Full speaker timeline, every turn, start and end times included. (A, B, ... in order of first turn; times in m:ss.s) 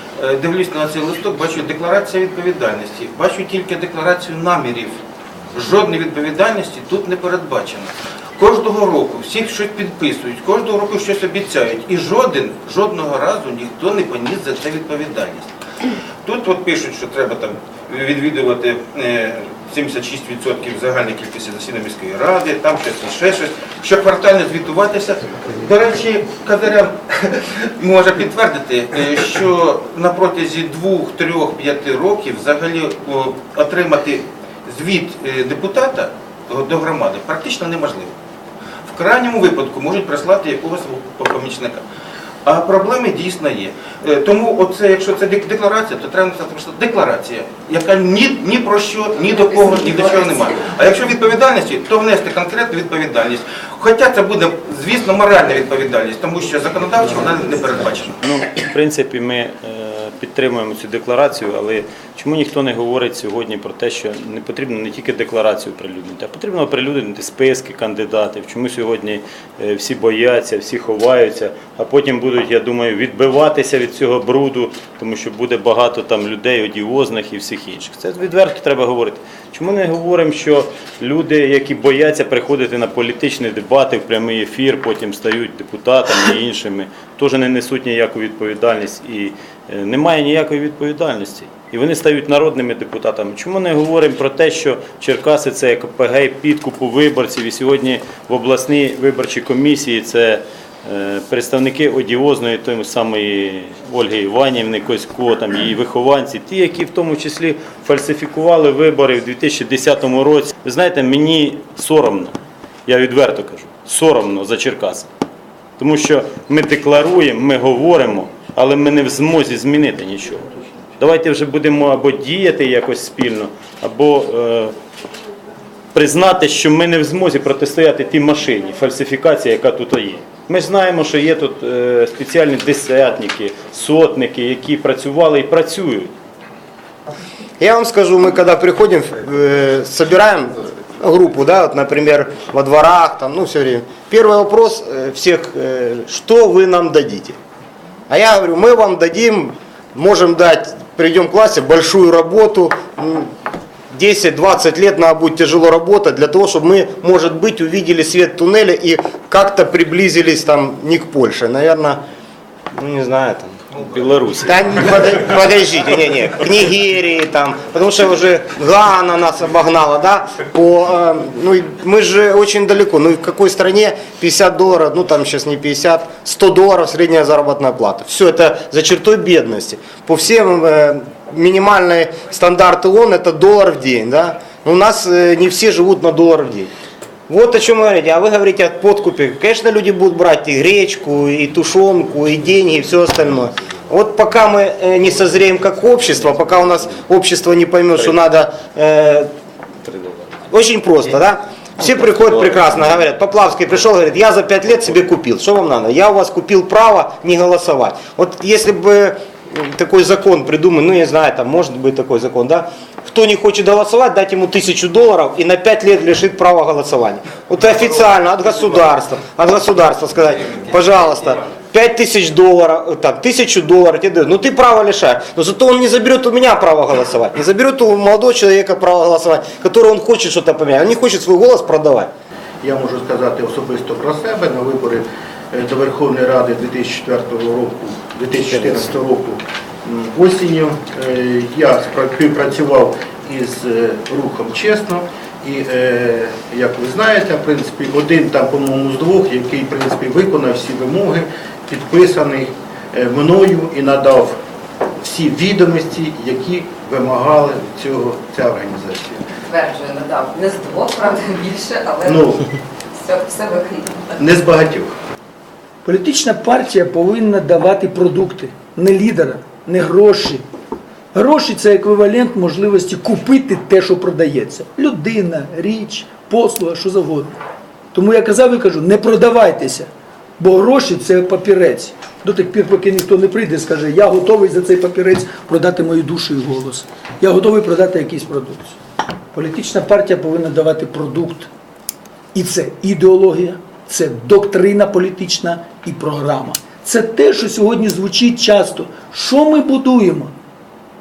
0:00.2-0:05.0 A
0:05.5-0:15.5 A
0:16.2-0:38.1 A
0:38.8-0:41.8 A
0:42.4-0:58.1 A
0:58.1-1:52.3 B
1:52.9-1:55.0 B
1:55.8-2:00.4 B
2:01.0-2:04.7 B
2:05.9-2:16.1 B
2:17.6-2:27.4 C
2:28.1-2:33.3 C
2:33.9-2:42.0 C
2:42.7-2:43.7 C
2:43.9-2:44.4 B
2:44.4-3:06.7 C
3:07.3-3:19.3 C
3:20.4-3:52.1 C
3:52.6-4:14.4 D
3:58.5-3:58.9 C
4:15.0-4:19.2 D
4:19.5-4:22.2 E
4:22.0-4:22.4 D
4:23.0-4:24.0 E
4:24.2-4:25.0 D
4:25.8-4:30.4 F
4:31.1-4:37.4 F
4:37.9-4:48.8 F
4:49.3-4:51.5 F
4:52.3-5:00.3 F